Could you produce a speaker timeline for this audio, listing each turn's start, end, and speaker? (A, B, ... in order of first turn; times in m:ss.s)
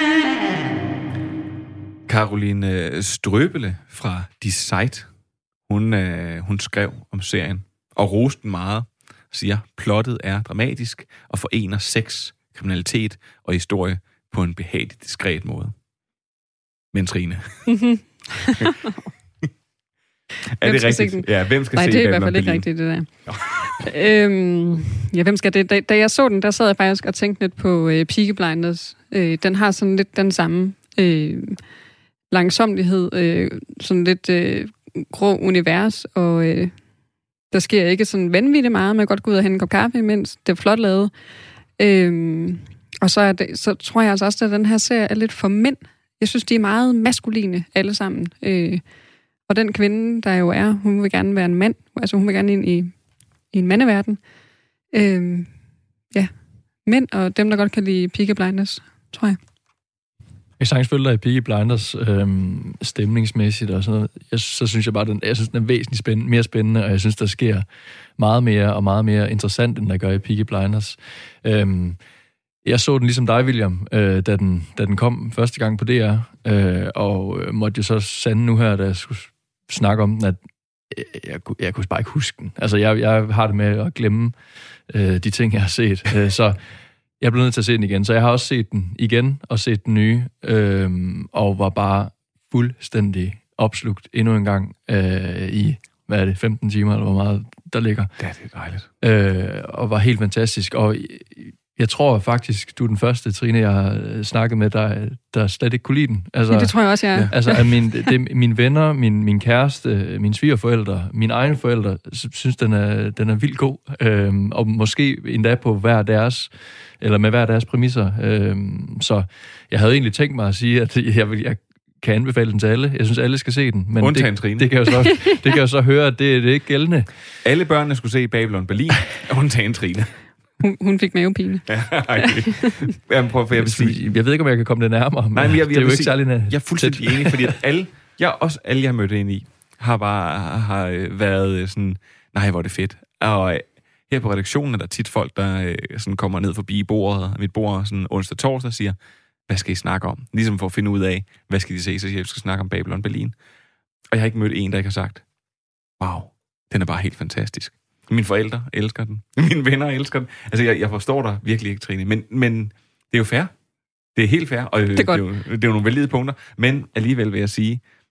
0:02.1-0:05.1 A
0:05.7-0:15.7 A
0:16.9-0:17.7 A
0:17.7-0:19.0 B
0:20.6-0:22.6 A
0:20.6-0:23.1 B
0:23.3-0:23.6 A
0:23.6-0:31.6 B
0:32.3-0:36.7 B
0:37.5-0:41.1 B
0:41.8-0:48.8 B
0:49.5-0:52.9 B
0:53.5-0:54.2 B
0:54.9-0:55.5 B
0:56.9-0:59.4 B
1:00.6-1:07.6 C
1:08.2-1:12.0 C
1:12.6-1:24.4 C
1:24.9-1:26.6 C
1:27.2-1:38.1 C
1:38.2-1:38.9 A
1:39.0-2:07.1 C
1:46.5-1:47.8 B
2:04.0-2:04.7 A
2:07.4-2:10.1 A
2:10.6-2:12.7 B
2:11.7-2:14.0 A
2:13.5-2:17.6 C
2:15.3-2:29.0 A
2:29.5-2:33.4 A
2:34.1-2:35.2 A
2:36.0-2:43.5 A
2:44.1-2:47.8 A